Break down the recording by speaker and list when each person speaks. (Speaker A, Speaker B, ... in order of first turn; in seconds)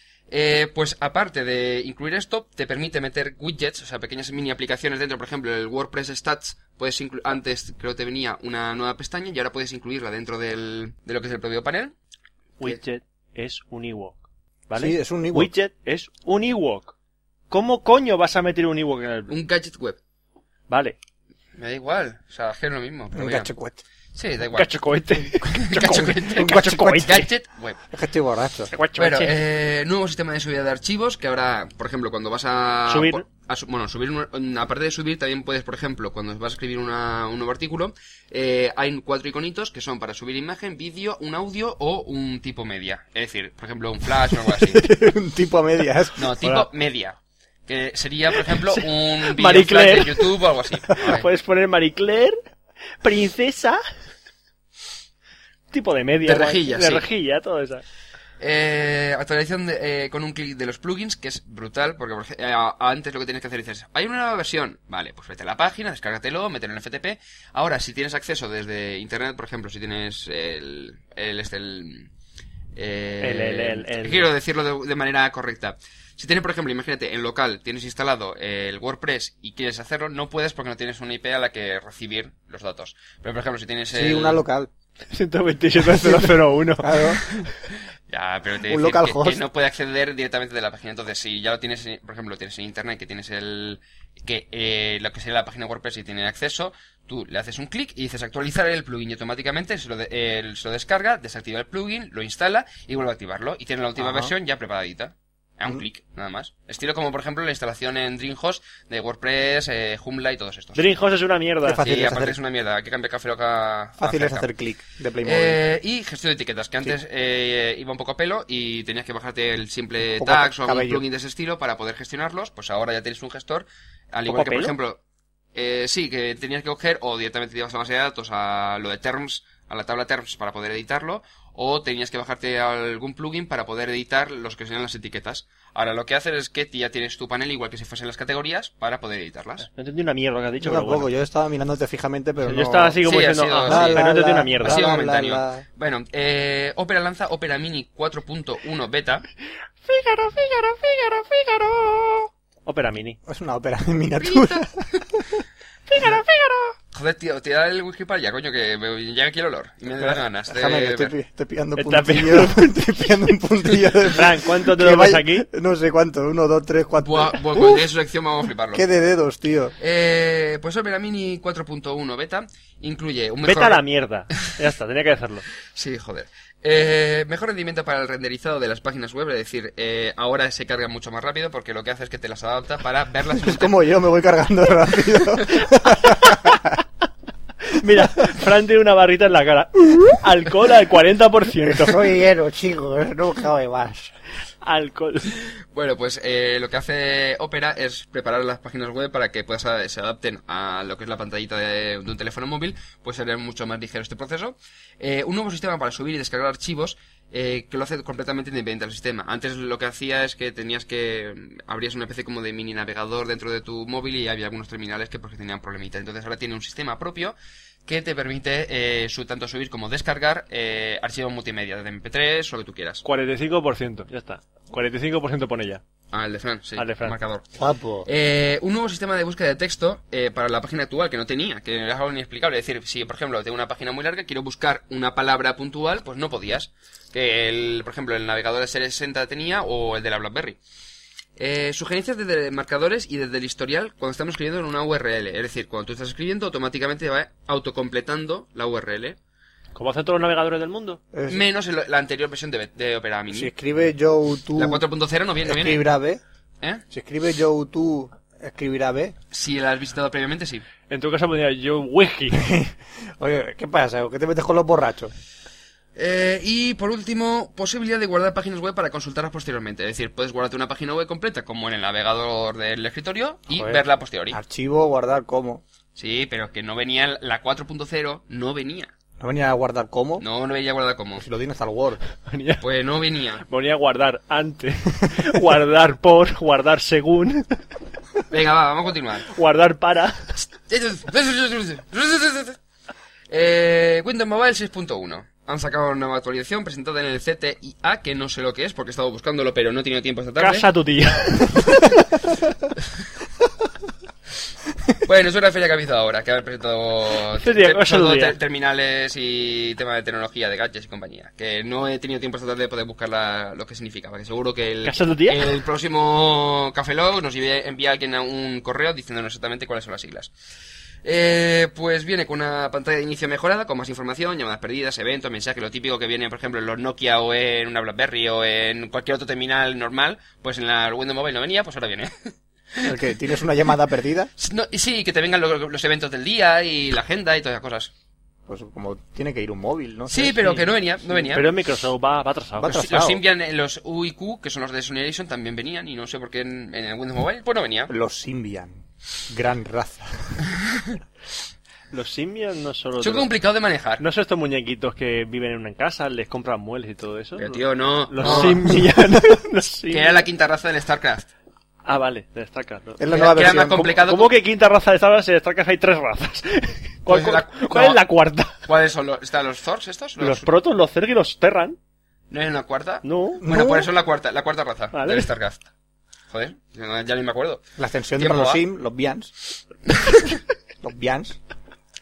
Speaker A: 0.3-11.9, 19.3-20.0, 21.6-23.5, 24.1-24.8, 25.4-27.8, 29.0-44.9, 46.2-51.3, 56.2-57.1, 58.4-72.1, 72.8-84.4, 88.1-110.9, 111.8-114.5, 115.2-125.0, 125.5-139.7, 143.0-144.1, 144.6-149.2, 154.2-155.1, 156.9-161.1, 167.0-168.8, 169.8-173.8, 175.7-183.8, 195.7-217.3, 217.8-223.0, 226.1-227.4, 228.0-240.6, 241.4-249.2, 251.3-253.5, 254.6-255.9, 259.3-260.6, 265.9-274.4, 275.9-278.9, 280.2-281.2, 282.6-283.4, 288.3-289.3, 290.7-292.6, 293.3-300.7, 305.0-320.3, 321.0-332.9, 334.4-337.9, 340.1-341.5, 342.6-347.9, 353.0-354.0, 357.4-358.7, 359.9-361.3, 363.1-364.4, 367.1-368.0, 368.6-370.5, 372.3-375.6, 376.3-377.6, 378.2-378.6
Speaker B: 12.6-16.9, 17.5-19.3, 20.7-20.9, 24.5-27.2, 28.7-29.3, 32.9-33.2, 48.5-50.3, 50.9-52.4, 53.0-53.8, 55.7-57.8, 73.2-74.3, 85.1-87.5, 110.7-111.8, 124.3-124.7, 139.6-141.1, 142.4-144.8, 149.8-153.2, 155.9-156.7, 161.8-163.1, 164.0-165.5, 173.4-175.4, 186.1-186.6, 187.7-192.0, 194.6-195.3, 223.0-225.8, 226.8-227.2, 249.7-251.0, 260.9-262.4, 282.3-282.6, 283.5-287.6, 289.3-290.3, 300.4-301.9, 307.4-308.4, 314.8-315.5, 341.3-342.9, 351.9-353.3, 354.0-360.2, 361.8-363.1, 364.0-368.6, 370.2-371.8, 373.0-373.4, 374.9-375.3
Speaker C: 14.7-15.5, 23.1-23.8, 26.3-27.2, 27.9-28.7, 44.5-46.3, 83.9-84.7, 85.8-87.2, 88.7-89.4, 104.0-104.3, 111.6-112.4, 114.0-115.6, 120.0-121.0, 140.6-143.0, 143.7-145.6, 153.3-154.8, 160.0-167.8, 168.7-169.7, 183.3-186.7, 191.6-194.1, 227.6-228.1, 251.1-251.4, 253.3-254.8, 255.4-256.2, 256.9-259.1, 262.3-265.1, 273.5-275.6, 279.2-280.2, 281.1-282.0, 332.8-334.3, 338.5-340.5, 342.6-343.2, 347.9-350.4, 358.2-358.9, 363.0-364.0, 373.4-373.9, 377.8-379.3, 380.8-381.4